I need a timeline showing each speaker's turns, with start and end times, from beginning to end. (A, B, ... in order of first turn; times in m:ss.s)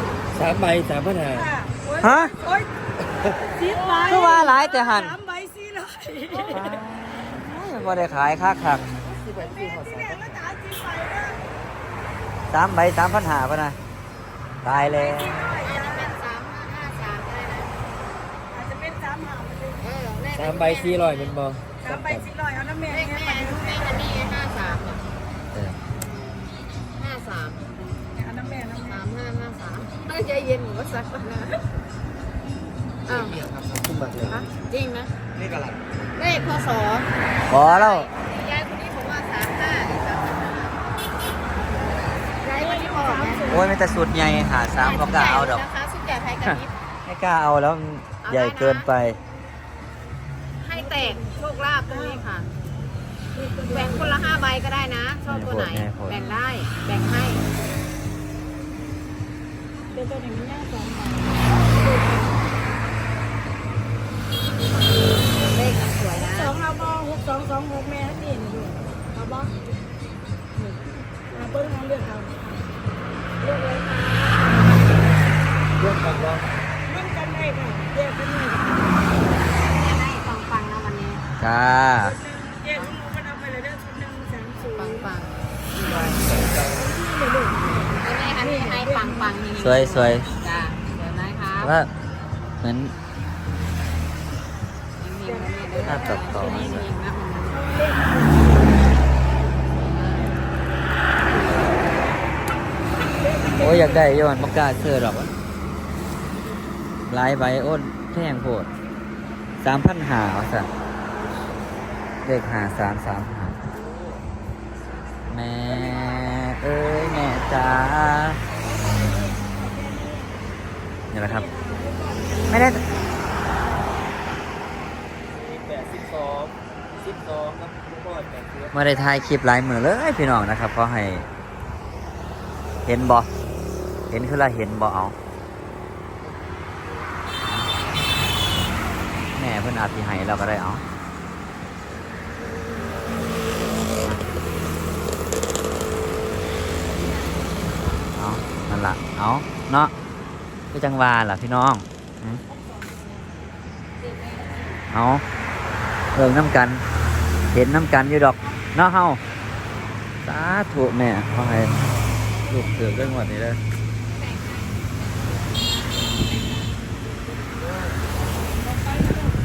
0:00.3-0:01.5 A
0:01.4-0:02.7 B
0:02.0-0:02.4 C
0:03.6-0:06.7 B
0:03.9-0:04.3 D
0:04.1-0:05.2 C
0:06.4-0:08.9 C
0:09.2-0:10.4 A
0:09.4-0:11.4 B
0:12.5-0:13.8 C
0:14.6-0:15.4 C
0:14.7-0:16.1 B
0:15.5-0:17.8 D
0:18.5-0:19.8 B
0:19.8-0:21.3 D
0:20.3-0:22.3 A
0:21.8-0:23.8 B
0:22.9-0:25.0 D
0:26.9-0:27.6 D
0:28.2-0:29.0 B
0:28.8-0:31.6 D
0:33.1-0:33.5 D
0:33.1-0:34.5 A
0:34.3-0:35.2 D
0:35.4-0:35.8 A
0:36.2-0:41.0 D
0:37.5-0:38.1 C
0:42.4-0:43.5 D
0:42.5-0:43.7 B
0:43.4-0:45.6 C
0:44.8-0:46.8 D
0:46.4-0:49.2 C
0:48.2-0:48.9 D
0:50.6-0:52.5 D
0:51.0-0:51.3 B
0:53.4-0:54.1 B
0:53.7-0:57.5 D
0:55.3-0:56.2 C
1:00.0-1:02.2 B
1:05.3-1:06.6 D
1:06.4-1:09.5 B
1:11.4-1:12.4 B
1:13.4-1:14.4 B
1:15.8-1:16.4 A
1:16.9-1:18.7 B
1:19.6-1:21.2 D
1:21.4-1:22.2 C
1:22.2-1:25.0 B
1:22.7-1:23.0 D
1:24.6-1:26.5 D
1:26.8-1:27.9 B
1:27.9-1:31.8 D
1:28.4-1:29.3 B
1:29.6-1:30.3 C
1:31.6-1:31.9 C
1:32.6-1:32.9 C
1:35.0-1:37.7 D
1:35.3-1:36.7 B
1:35.8-1:36.9 C
1:37.6-1:38.4 B
1:39.8-1:40.4 D
1:43.2-1:43.8 B
1:43.6-1:45.3 C
1:47.1-1:48.7 C
1:49.6-1:50.7 C
1:52.2-1:53.6 C
1:55.3-1:58.4 C
1:59.0-2:00.3 B
2:01.1-2:01.5 C
2:01.3-2:02.6 B
2:02.5-2:02.8 C
2:05.3-2:08.7 A
2:08.7-2:11.3 C
2:12.8-2:13.3 C
2:14.1-2:15.2 C
2:19.3-2:20.8 C
2:28.2-2:29.9 C
2:30.7-2:32.4 C
2:34.9-2:35.2 C
2:36.2-2:36.8 C
2:37.5-2:39.2 C
2:40.2-2:41.8 C
2:42.5-2:43.6 C
2:44.1-2:46.4 D
2:48.8-2:49.3 B